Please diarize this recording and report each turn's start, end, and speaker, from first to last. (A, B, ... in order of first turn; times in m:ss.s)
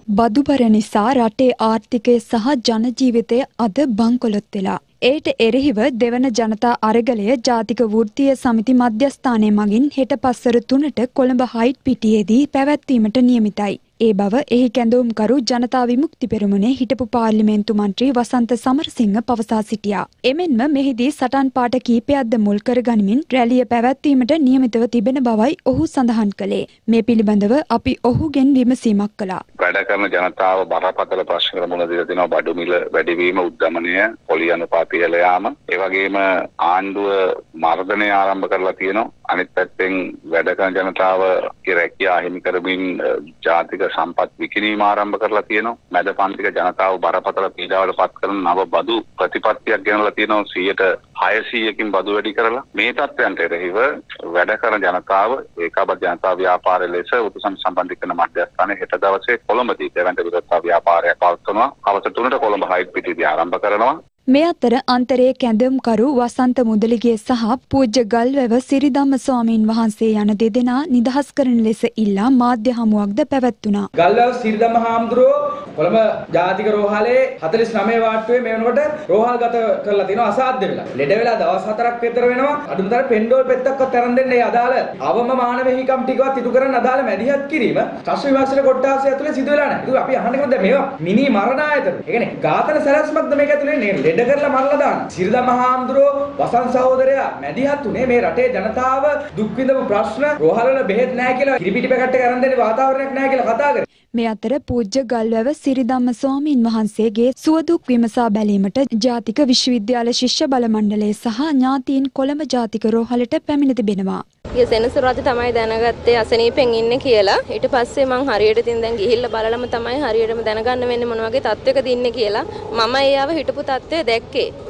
0:00.2-0:29.4 A
0:29.6-1:03.9 B
1:04.3-1:13.9 A
1:14.0-1:43.8 C
1:44.2-1:54.2 A
1:54.6-2:04.5 D